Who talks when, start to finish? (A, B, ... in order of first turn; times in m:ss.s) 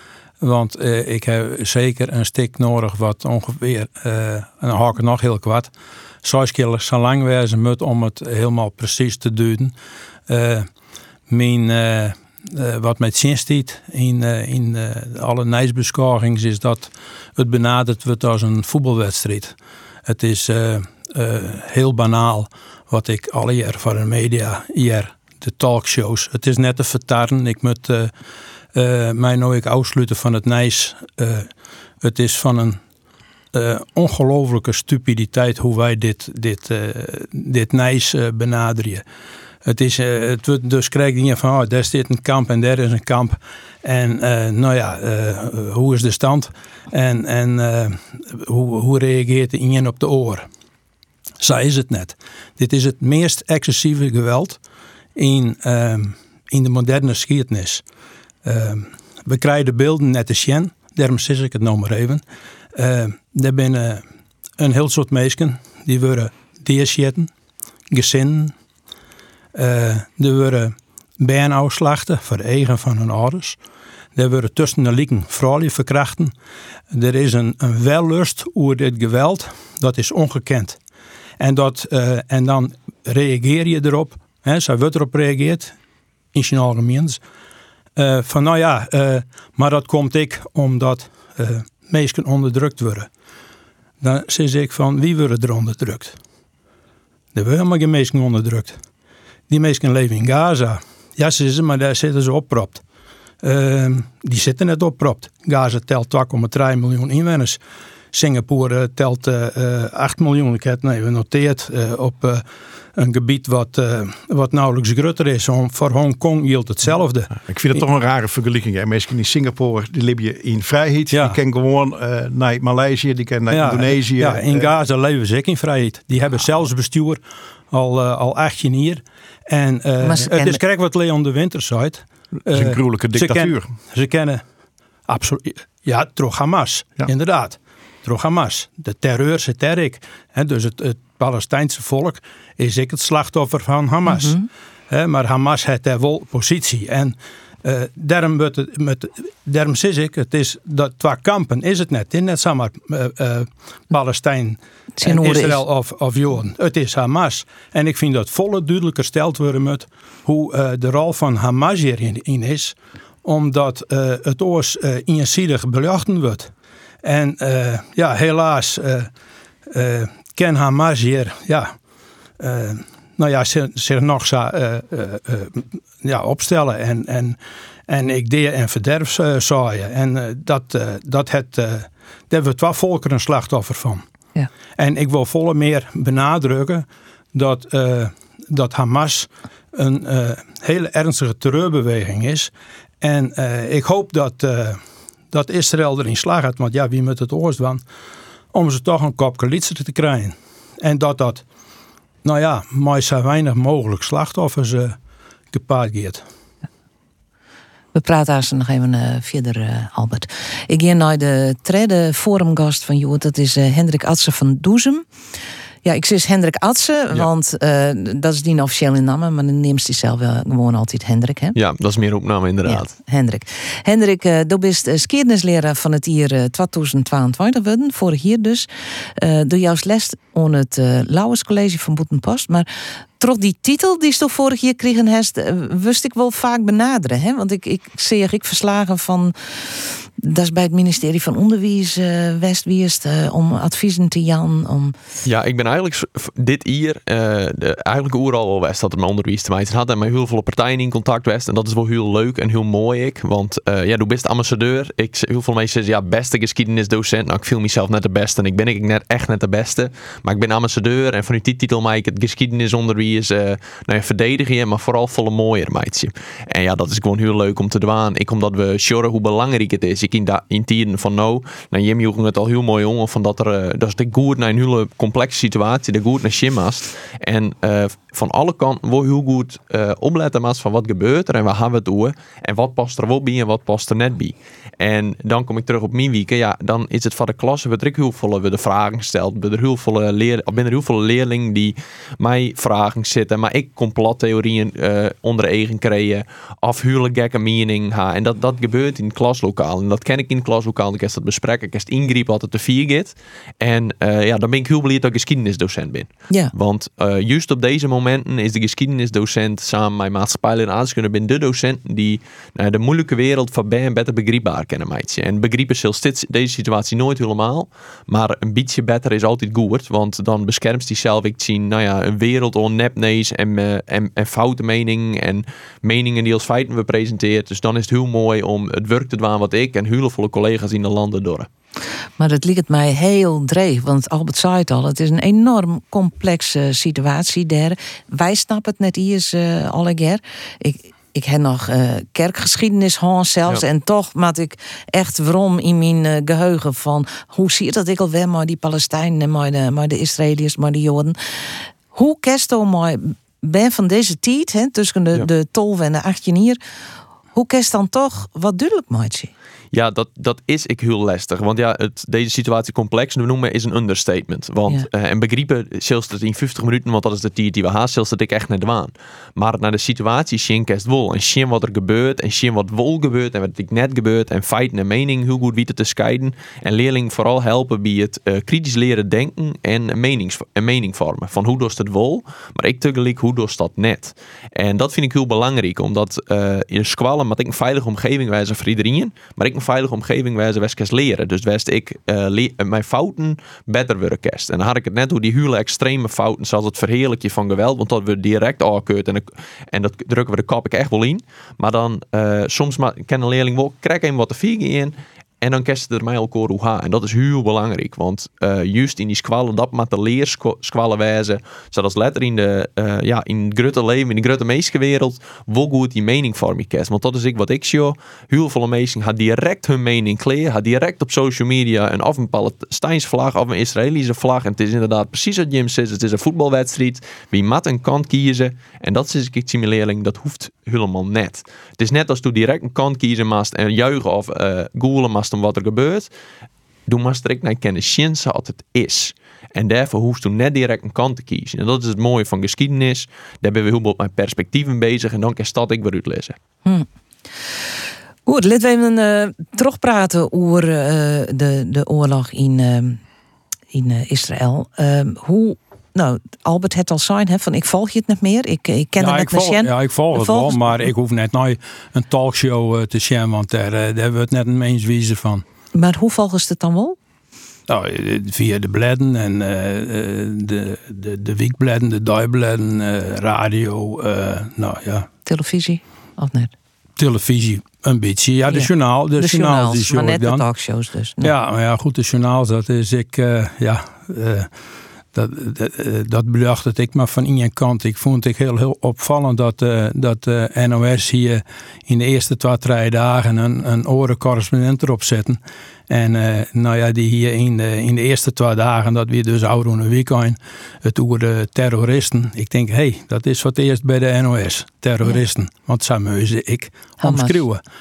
0:00.4-0:05.7 A
0:06.2-0:09.7 A
0:10.3-0:10.7 A
0:11.3-0:19.5 A
0:20.1-0:28.1 A
0:28.7-0:31.5 A
0:32.0-0:32.8 A
0:33.5-0:39.0 A
0:39.6-0:50.4 A
0:51.4-0:54.6 A
0:55.2-0:57.8 A
0:58.4-1:02.2 A
1:02.8-1:04.0 A
1:04.6-1:07.3 A
1:07.9-1:08.5 A
1:09.5-1:13.6 A
1:14.1-1:16.3 A
1:16.9-1:20.8 A
1:21.4-1:25.7 A
1:26.3-1:27.2 A
1:28.0-1:33.1 A
1:34.0-1:36.2 A
1:37.3-1:38.8 A
1:39.5-1:42.8 A
1:43.4-1:47.6 A
1:48.1-1:52.4 A
1:53.0-1:57.8 A
1:57.4-2:04.7 B
2:01.1-2:01.4 A
2:03.5-2:14.4 A
2:10.0-2:10.6 C
2:12.5-2:13.7 B
2:15.1-2:24.3 A
2:24.1-2:24.5 C
2:24.9-2:46.5 A
2:35.0-2:35.6 C
2:47.0-2:49.1 A
2:49.7-2:51.7 A
2:52.4-2:57.4 A
2:57.9-3:04.0 A
3:04.8-3:14.8 A
3:15.3-3:17.8 A
3:18.5-3:21.4 A
3:22.2-3:25.0 A
3:25.5-3:26.2 A
3:27.9-3:35.0 C
3:35.8-3:41.6 C
3:41.5-3:42.9 D
3:42.7-3:52.7 C
3:53.2-4:04.9 C
4:05.2-5:31.5 D
5:32.2-5:51.2 C
5:51.9-5:56.6 C
5:57.3-5:59.3 C
5:59.7-7:16.1 D
7:16.9-7:26.4 D
7:28.2-7:33.0 C
7:33.7-7:40.8 C
7:39.0-7:45.4 A
7:45.7-7:47.0 C
7:47.7-7:55.1 A
7:55.2-7:56.5 C
7:57.0-8:00.4 A
7:58.5-8:01.3 C
8:01.2-8:04.5 A
8:05.1-8:27.6 A
8:27.0-8:27.4 C